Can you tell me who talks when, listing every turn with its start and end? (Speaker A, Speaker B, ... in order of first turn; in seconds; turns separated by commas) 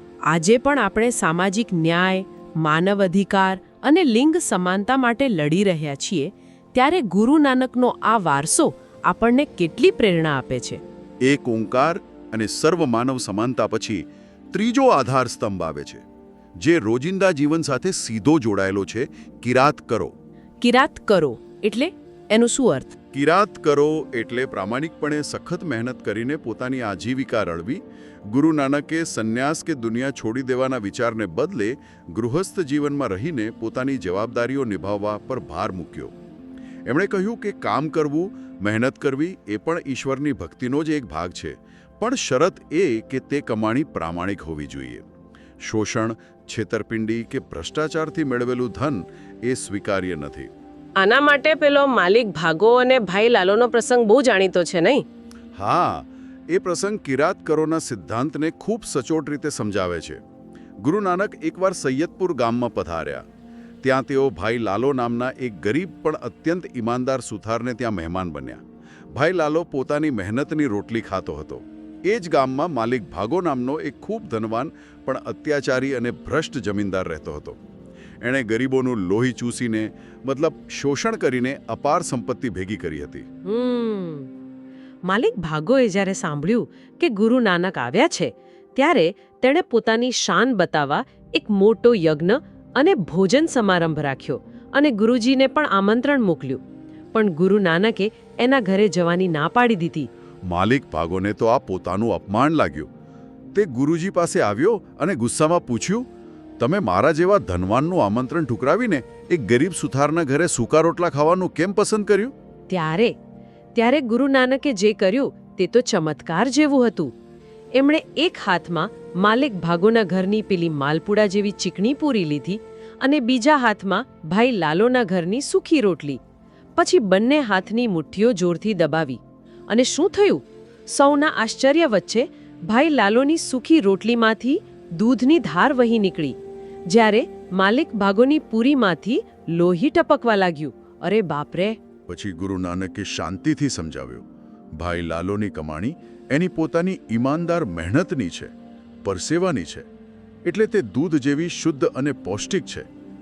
Speaker A: 0.3-10.8, Speaker B: 11.2-16.0, Speaker B: 16.6-20.1, Speaker A: 20.6-23.0, Speaker B: 23.1-36.1, Speaker B: 36.9-45.1, Speaker B: 45.6-50.5, Speaker A: 51.0-55.0, Speaker B: 55.5-60.2, Speaker B: 60.8-63.2, Speaker B: 63.8-77.6, Speaker B: 78.2-83.2, Speaker A: 83.4-84.3, Speaker A: 85.0-96.6, Speaker A: 97.1-100.1, Speaker B: 100.5-102.9, Speaker B: 103.5-106.0, Speaker B: 106.6-112.3, Speaker A: 112.7-113.2, Speaker A: 113.8-117.1, Speaker A: 117.8-126.2, Speaker A: 126.8-136.4, Speaker A: 136.9-141.8, Speaker B: 142.1-144.2, Speaker B: 144.8-148.5, Speaker B: 149.0-149.9, Speaker B: 150.4-152.9